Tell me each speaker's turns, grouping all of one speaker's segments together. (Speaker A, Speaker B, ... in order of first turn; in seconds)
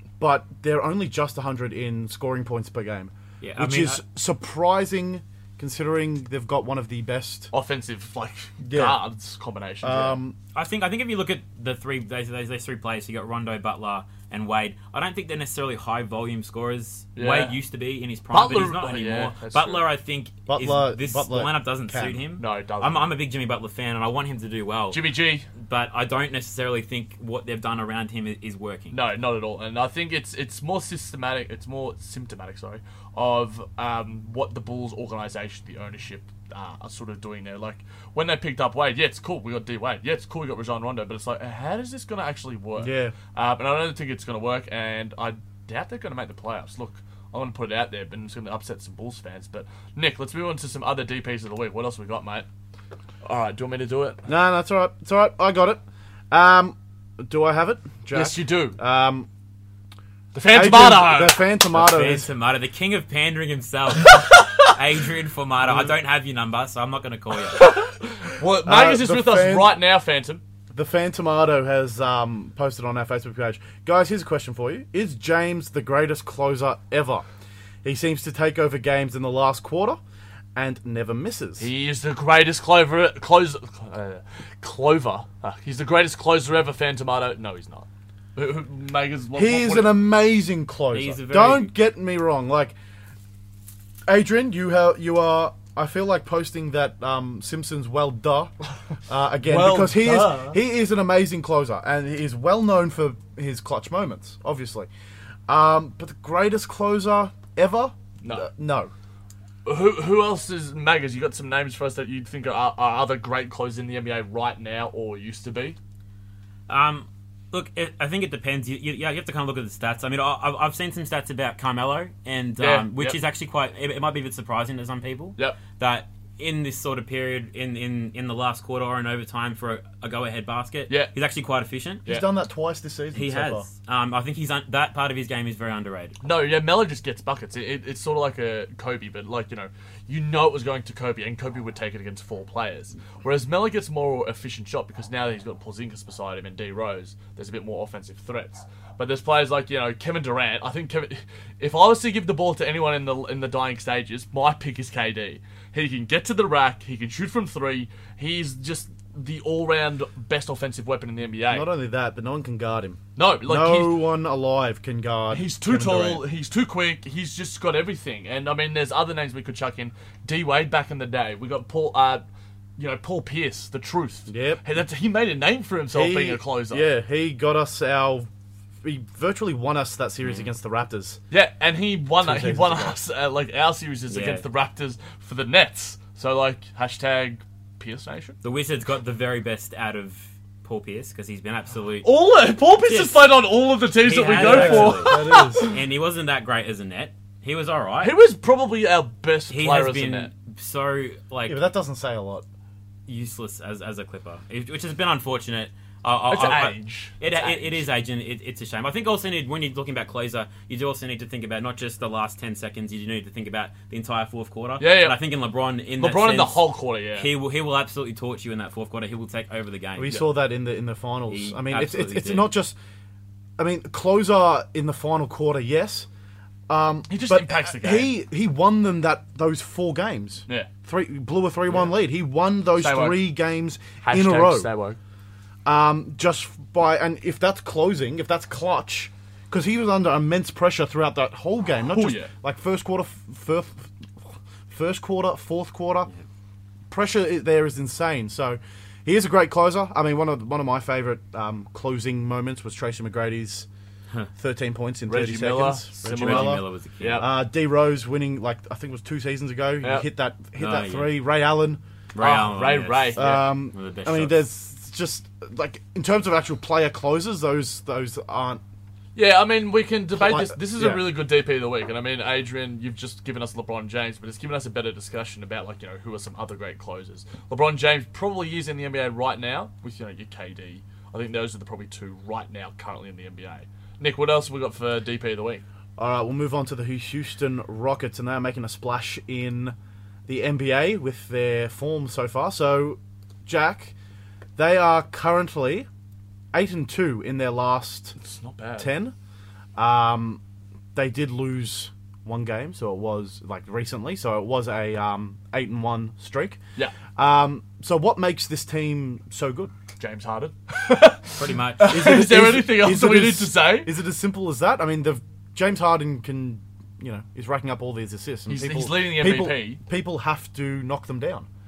Speaker A: 0.2-7.5, 8.6-9.0, 9.8-10.4, 20.5-22.2, 42.8-43.2, 54.3-59.3, 60.5-62.3, 68.7-69.8, 70.7-77.2, 77.8-80.0, 80.5-81.7, 89.4-92.8, 94.1-98.5, 99.1-104.9, 105.5-108.9, 132.1-133.7, 161.5-166.2, 174.3-174.6, 175.9-178.3, 178.8-181.2, 182.2-183.0, 194.4-195.7, 201.5-202.4, 220.0-222.8, 223.6-226.1, 226.7-234.7, 235.7-246.1, 246.9-253.7, 254.4-261.8, 263.2-268.6, 270.1-271.1, 286.0-289.8, 290.3-293.9, 294.6-295.9, 296.5-298.2, 298.8-299.1, 299.8-300.4, 300.9-306.6, 307.2-309.7, 311.9-321.5
Speaker B: 3.4-4.0, 10.5-29.0, 61.7-67.7, 90.9-91.7, 116.7-132.0, 133.1-136.2, 184.1-184.4, 188.4-192.1, 192.9-193.3, 194.0-198.2, 199.5-201.6, 203.1-220.2, 221.3-222.5, 256.1-257.3, 260.6-261.2, 262.1-264.4, 311.4-312.0
Speaker C: 7.5-10.2, 17.2-17.6, 18.3-19.9, 22.4-23.1, 24.9-25.5, 28.9-52.5, 53.2-54.2, 58.1-58.8, 60.3-61.4, 67.5-70.4, 81.6-90.0, 99.4-100.6, 108.2-108.5, 109.7-115.8, 122.6-123.2, 136.2-161.7, 163.2-164.0, 165.3-172.2, 172.8-176.9, 181.3-188.4, 192.0-195.8, 198.0-200.3, 206.3-207.8, 214.8-215.2, 216.0-217.3, 227.1-228.1, 231.7-231.9, 232.8-233.3, 234.0-235.0, 241.9-242.3, 255.1-257.3, 259.8-260.1, 262.2-263.5, 269.2-285.6, 298.2-298.9, 310.0-313.9, 318.5-319.8